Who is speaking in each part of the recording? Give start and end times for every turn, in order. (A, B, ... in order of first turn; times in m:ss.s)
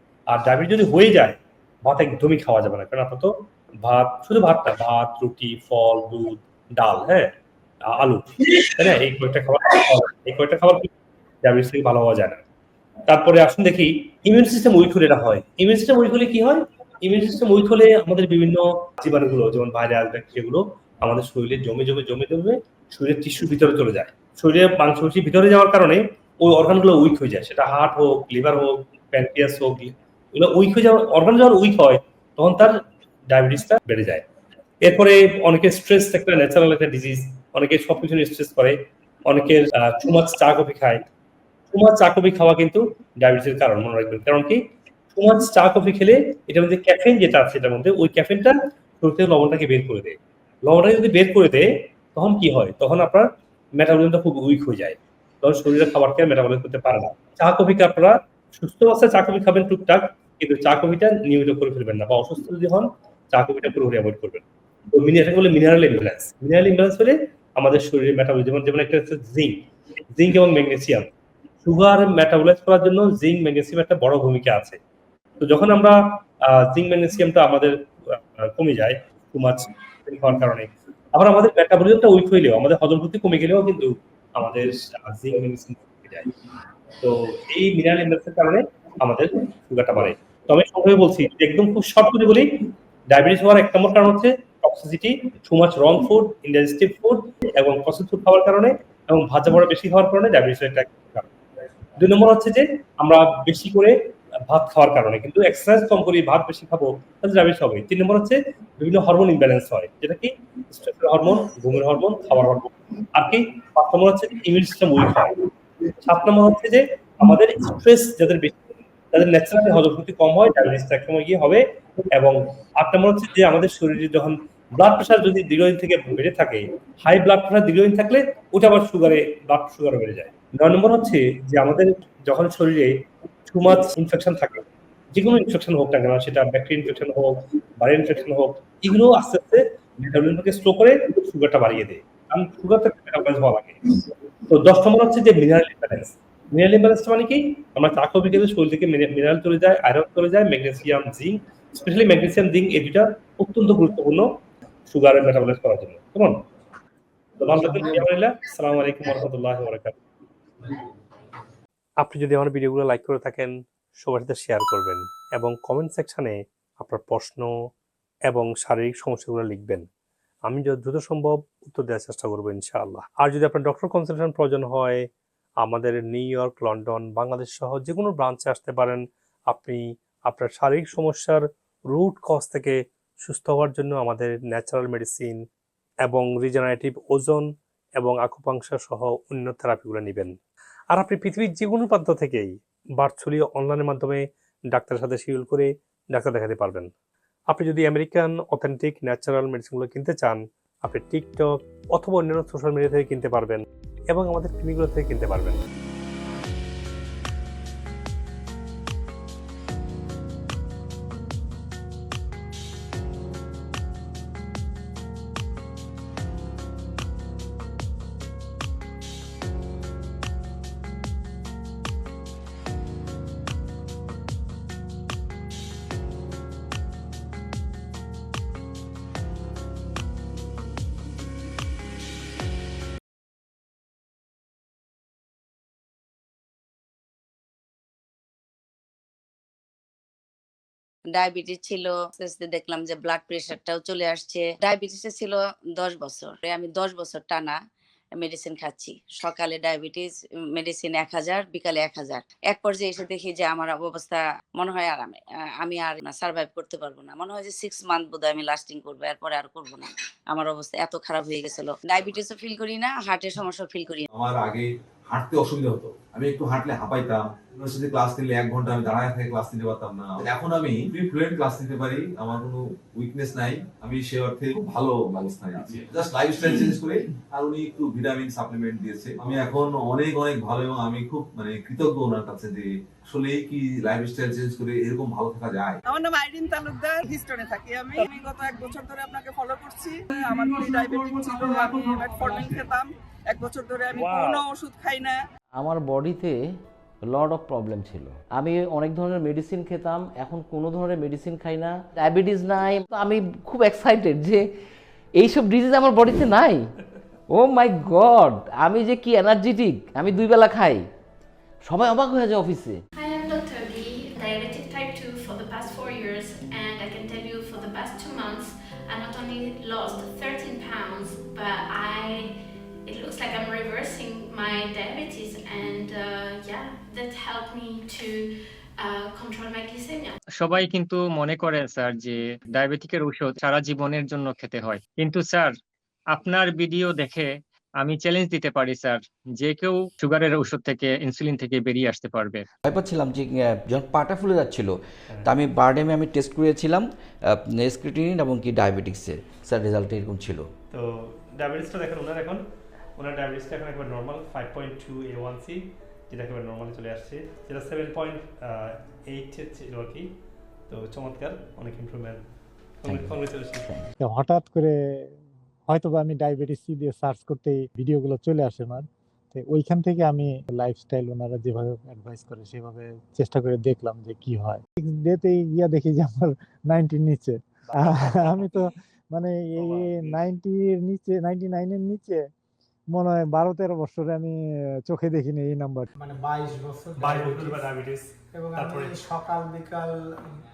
0:00.3-0:07.3 A
0:07.9-0:10.9 A
0:11.4-0:12.4 A
0:13.1-0:34.2 A
0:34.8-0:38.8 A
0:39.3-0:41.0 A
0:41.7-0:44.6 A
0:45.2-1:09.6 A
1:10.2-1:11.1 A
1:11.6-1:14.8 A
1:15.4-1:26.3 A
1:27.0-1:32.5 A
1:33.1-1:41.3 A
1:42.0-1:44.0 A
1:44.5-1:55.4 A
1:56.0-1:58.6 A
1:59.1-2:01.6 A
2:02.1-2:13.0 A
2:13.5-2:23.9 A
2:24.5-2:34.3 A
2:34.9-2:36.4 A
2:37.4-2:40.0 A
2:42.0-2:47.5 A
2:48.3-2:49.9 A
2:50.5-2:55.0 A
2:55.6-3:05.4 A
3:06.0-3:07.5 A
3:08.0-3:10.3 A
3:10.9-3:16.9 A
3:17.5-3:25.6 A
4:01.1-4:07.6 B
4:08.2-4:24.1 B
4:24.1-4:45.8 C
4:45.9-4:55.2 D
4:53.9-4:54.4 A
4:55.6-4:56.4 E
4:57.0-5:04.5 E
5:05.2-5:06.7 E
5:07.3-5:10.8 E
5:11.6-5:12.8 E
5:13.0-5:22.3 F
5:22.9-5:30.2 F
5:30.4-5:35.6 G
5:36.1-5:42.4 G
5:42.6-5:50.5 H
5:50.7-5:52.4 A
5:53.0-6:00.1 A
6:00.7-6:02.2 A
6:02.8-6:03.7 A
6:02.9-6:03.9 H
6:04.0-6:04.7 I
6:05.7-6:18.6 I
6:17.7-6:18.6 A
6:19.1-6:22.2 I
6:19.6-6:20.3 A
6:22.9-6:24.3 I
6:24.9-6:25.9 I
6:26.0-6:27.6 J
6:27.0-6:29.0 A
6:28.4-6:29.9 J